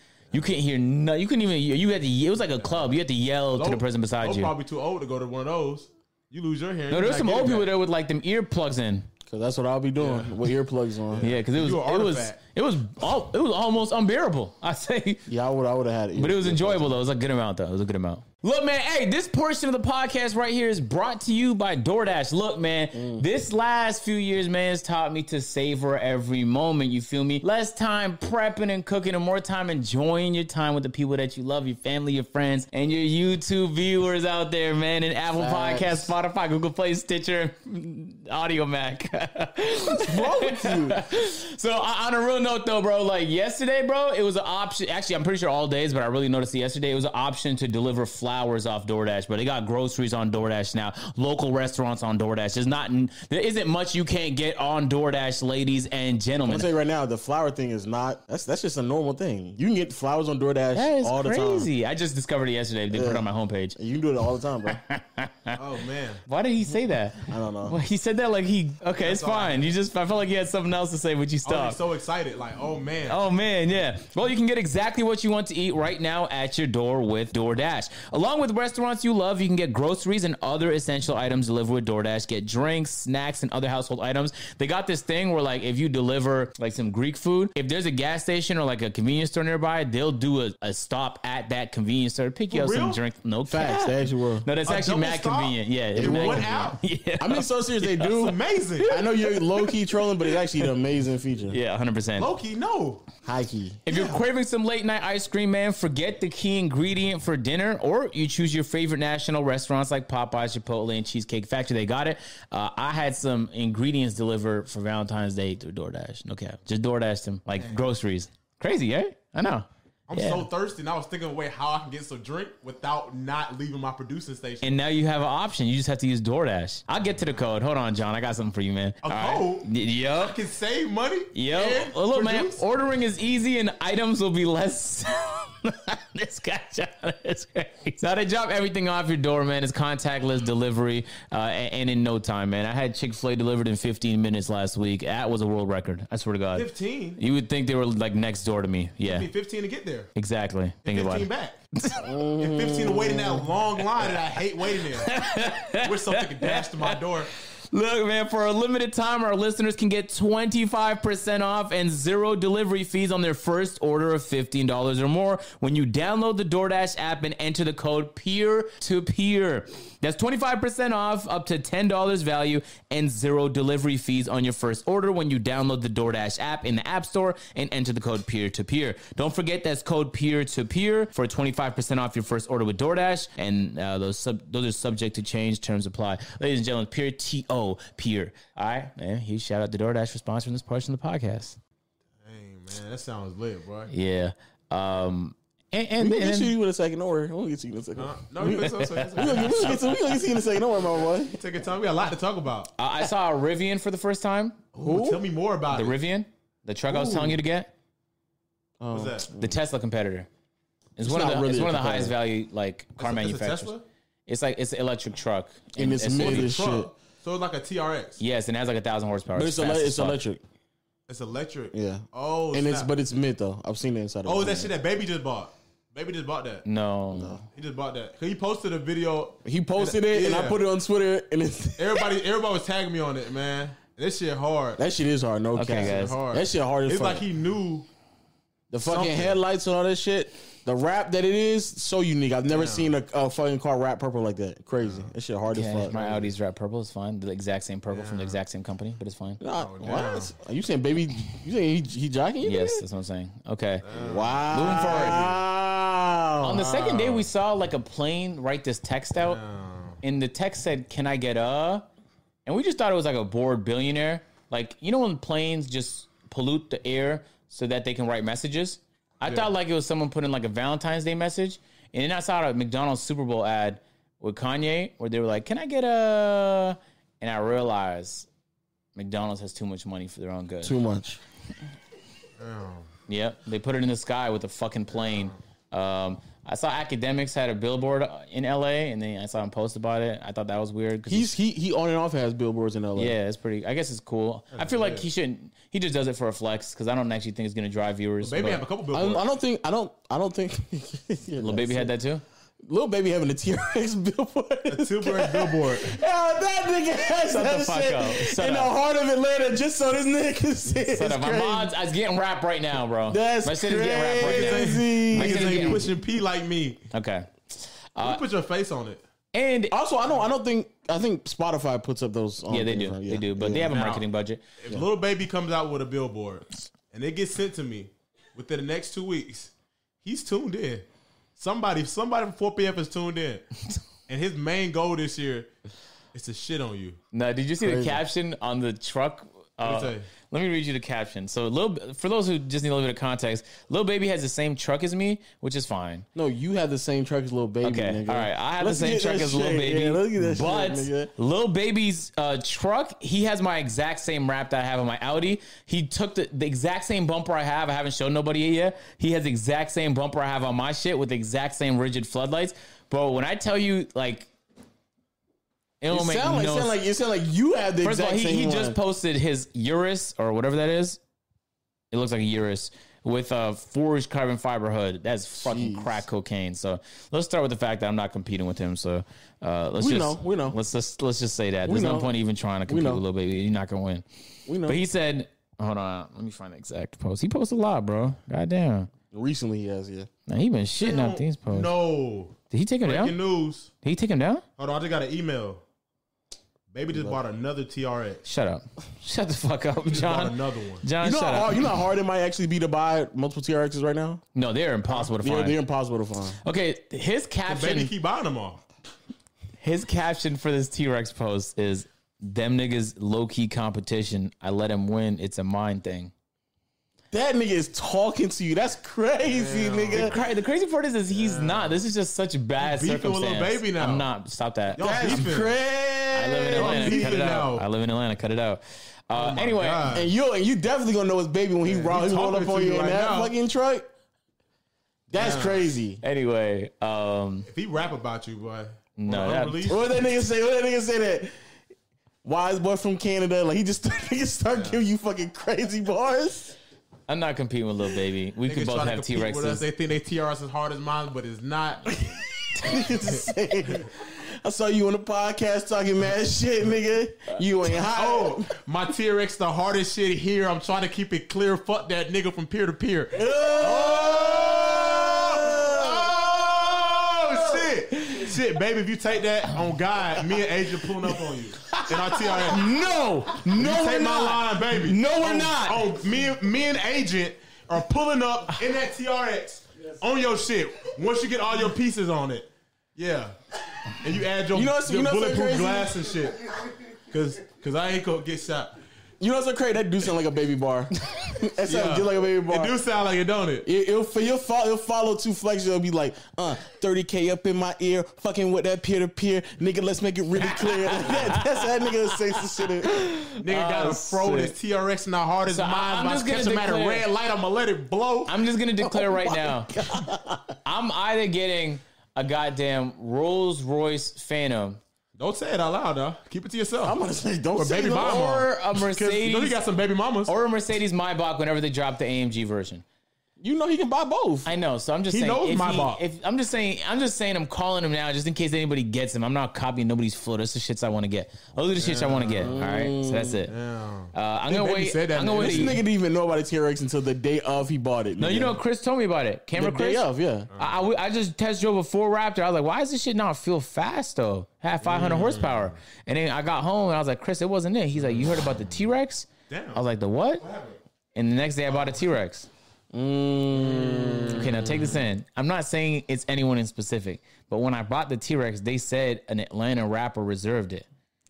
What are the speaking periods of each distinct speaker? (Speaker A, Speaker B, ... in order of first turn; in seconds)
Speaker A: 0.3-4.5, 6.9-9.1, 11.2-15.2, 16.1-56.7, 60.7-63.8, 64.7-65.6, 66.3-71.8, 73.0-98.2, 98.8-100.7, 101.5-102.3, 103.9-120.5, 124.6-130.4, 131.3-149.3, 150.1-152.1, 154.8-157.0, 157.7-191.6, 193.9-196.5, 198.8-200.2, 202.8-204.7, 205.7-207.7, 209.3-210.3, 211.0-213.7, 214.3-216.6, 218.2-220.2, 226.6-227.4, 235.6-236.2, 245.5-249.4, 252.4-253.9, 254.5-255.3, 256.4-259.4, 260.0-261.9, 262.4-278.3, 278.9-280.8, 283.1-291.3, 292.9-298.6, 301.4-302.2, 307.2-308.7, 310.9-315.9, 316.9-318.2, 319.3-319.7, 322.5-324.4, 337.1-346.1, 347.6-364.3, 365.8-366.7, 367.8-371.0, 371.9-384.1, 384.6-388.9, 390.3-391.7, 392.5-393.2, 393.8-394.4, 398.2-401.7, 404.3-405.6, 406.4-407.9, 409.6-416.1, 419.9-425.2, 426.1-429.9, 436.0-437.5, 439.0-439.8, 447.1-449.6, 471.7-475.9, 500.4-504.6, 505.4-507.1, 508.3-510.1, 510.6-514.8, 518.1-519.6, 520.3-522.8, 524.5-533.5, 534.1-535.8, 538.2-550.4, 551.1-552.5, 554.3-560.9
Speaker B: 3.5-7.7, 10.0-10.4, 11.1-12.4, 65.5-66.2, 69.0-69.7, 71.4-73.2, 92.5-93.0, 94.6-96.8, 98.0-99.0, 102.2-103.0, 120.1-124.7, 129.0-129.7, 130.2-132.6, 146.5-147.2, 149.0-150.1, 150.8-151.6, 152.4-155.2, 155.7-157.3, 192.2-193.9, 197.9-200.0, 201.0-202.7, 204.8-206.0, 208.9-209.3, 213.0-213.8, 216.1-218.2, 221.1-222.9, 224.2-226.6, 227.5-230.6, 231.8-234.8, 235.7-237.9, 238.9-239.4, 242.5-242.9, 244.8-245.1, 247.9-248.4, 249.5-250.3, 253.8-255.4, 259.1-260.0, 282.4-282.9, 285.1-285.4, 294.5-295.1, 298.2-299.2, 304.7-306.0, 314.2-316.9, 318.0-319.0, 323.7-324.1, 324.6-329.5, 330.0-330.9, 331.4-333.5, 334.1-335.5, 336.1-337.0, 339.6-340.1, 390.8-393.7, 394.6-395.6, 396.7-398.2, 399.9-400.9, 407.5-408.6, 419.2-420.2, 421.1-421.8, 422.6-424.1, 424.7-425.6, 426.5-427.6, 429.1-430.1, 431.6-433.3, 435.1-435.6, 437.5-439.8, 444.5-444.8, 448.4-452.1, 457.9-472.7, 473.4-486.5, 487.1-488.8, 491.6-493.6, 503.3-508.4, 515.2-517.0, 517.6-520.3, 525.1-526.0, 531.8-532.6, 533.5-535.8, 540.5-540.8, 544.8-545.8, 548.1-548.6, 549.5-549.8, 550.4-550.8, 553.5-555.0
Speaker C: 9.3-11.3, 15.3-16.9, 22.9-23.2, 35.4-36.1, 39.9-41.0, 56.5-61.7, 62.9-64.8, 67.3-67.8, 93.5-94.5, 96.0-98.4, 98.9-101.6, 103.2-103.9, 152.0-153.4, 196.0-201.4, 204.7-205.2, 206.9-207.3, 208.8-209.5, 211.0-212.1, 215.8-216.9, 219.3-220.4, 221.7-224.7, 227.1-227.4, 229.4-232.1, 234.8-237.2, 238.7-246.3, 249.4-252.8, 254.0-257.2, 280.6-281.2, 291.1-293.1, 298.9-301.9, 302.6-311.7, 313.1-315.9, 319.7-323.7, 337.6-338.0, 346.1-351.1, 365.9-368.8, 375.4-376.0, 379.8-380.6, 381.6-382.1, 382.7-383.0, 384.5-384.8, 389.1-390.1, 401.0-404.2, 405.2-406.4, 417.1-420.1, 424.8-427.2, 429.9-433.9, 435.1-436.0, 439.7-441.3, 442.2-446.6, 451.9-458.5, 463.1-466.2, 472.5-473.6, 484.5-486.1, 489.2-492.7, 493.6-503.1, 508.8-510.6, 516.8-518.4, 523.4-524.5, 532.4-533.4, 535.3-538.6, 539.5-540.5, 552.9-554.8